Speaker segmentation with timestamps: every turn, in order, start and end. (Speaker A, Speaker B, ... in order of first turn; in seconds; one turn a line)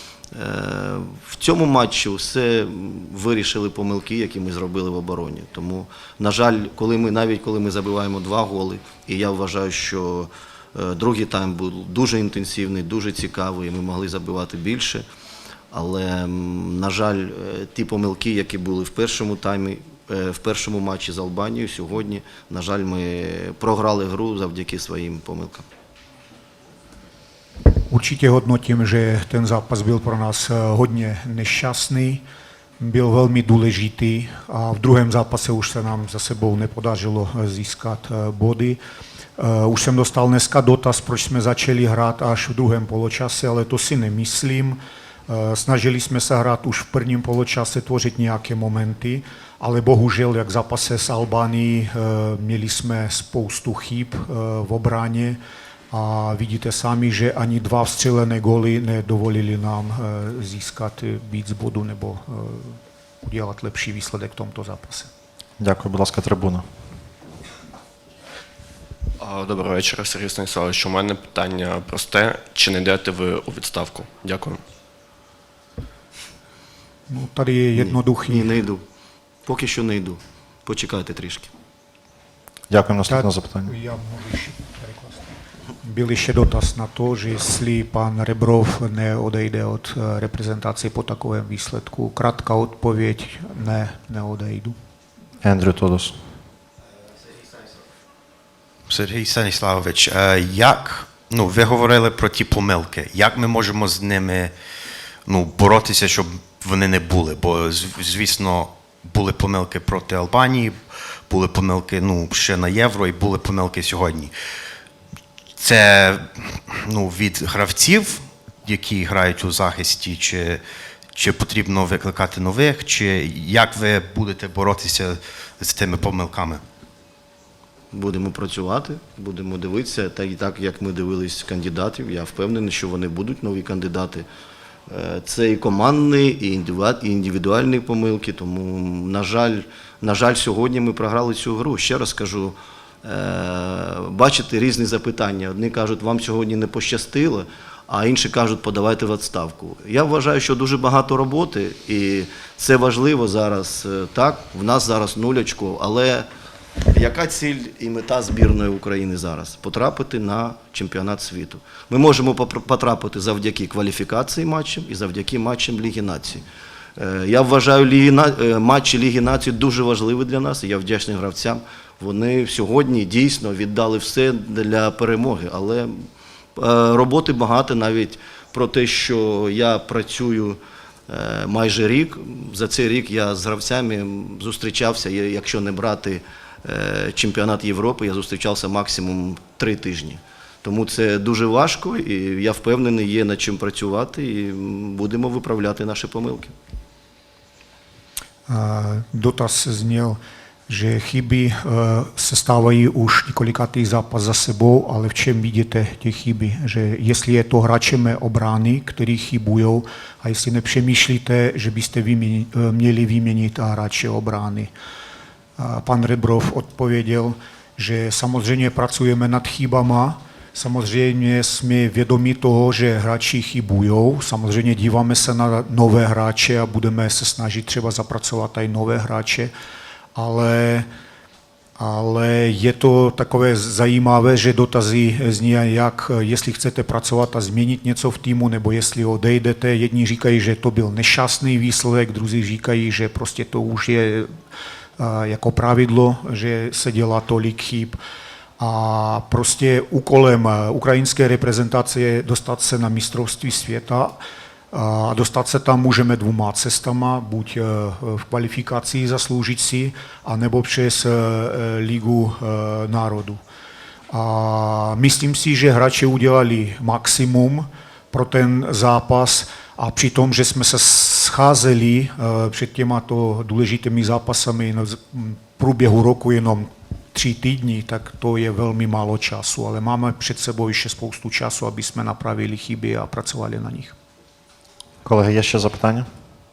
Speaker A: 0.3-15.0
Speaker A: 15.7-25.6
Speaker B: 27.9-32.2
Speaker B: 32.8-38.8
Speaker B: 39.4-55.4
Speaker B: 55.9-65.1
Speaker C: 65.6-66.6
Speaker D: 69.2-74.6
Speaker B: 77.1-78.5
Speaker A: 77.8-78.8
Speaker A: 79.5-81.5
Speaker C: 82.7-83.7
Speaker B: 83.1-85.2
Speaker B: 85.8-94.7
Speaker C: 95.4-96.2
Speaker E: 98.9-104.5
Speaker E: 105.3-110.7
Speaker E: 111.3-114.3
Speaker E: 115.6-120.6
Speaker E: 121.1-126.6
Speaker A: 127.9-134.2
Speaker A: 134.9-156.3
Speaker A: 156.9-166.4
Speaker A: 167.0-196.5
Speaker B: 198.5-214.7
Speaker B: 215.6-229.5
Speaker B: 230.1-230.9
Speaker B: 231.8-244.3
Speaker B: 245.0-248.0
Speaker B: 248.6-254.2
Speaker B: 254.7-263.4
Speaker B: 264.1-283.9
Speaker C: 285.0-286.1